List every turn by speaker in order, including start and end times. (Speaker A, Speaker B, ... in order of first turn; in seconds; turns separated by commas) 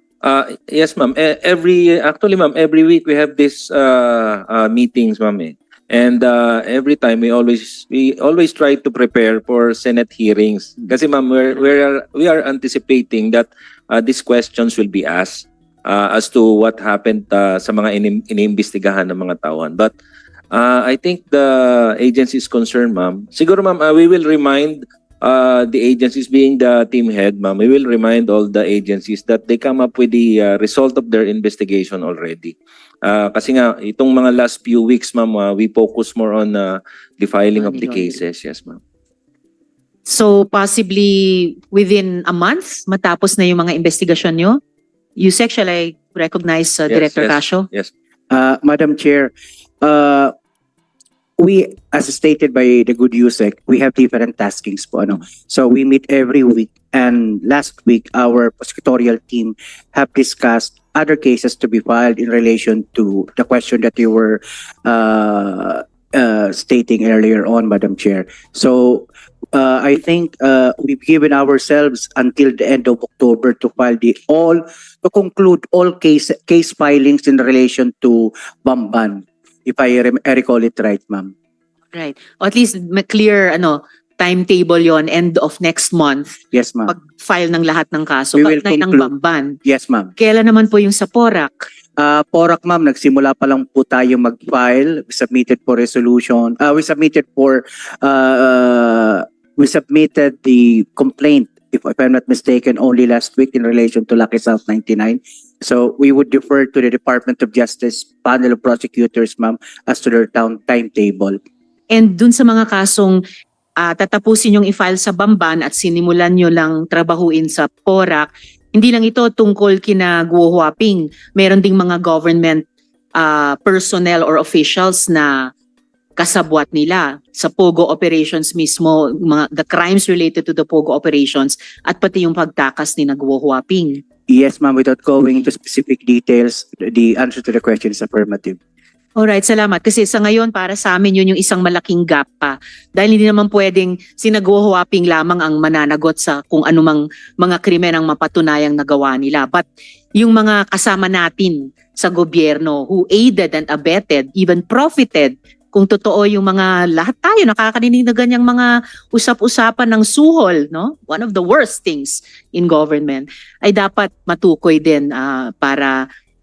Speaker A: 0.2-19.9, Speaker A: 20.5-38.8, Speaker B: 37.6-38.2, Speaker B: 40.1-44.6, Speaker B: 45.2-47.7, Speaker A: 46.9-47.9, Speaker C: 48.3-50.3, Speaker C: 51.4-81.3, Speaker B: 81.9-86.3, Speaker C: 86.5-86.9, Speaker B: 86.9-89.6, Speaker C: 88.3-89.1, Speaker C: 89.6-90.1, Speaker B: 90.2-91.6, Speaker C: 92.0-111.4, Speaker B: 111.9-113.2, Speaker B: 113.8-122.7, Speaker B: 123.2-125.5, Speaker B: 126.2-134.0, Speaker C: 134.3-138.6, Speaker B: 139.2-149.7, Speaker B: 150.2-166.1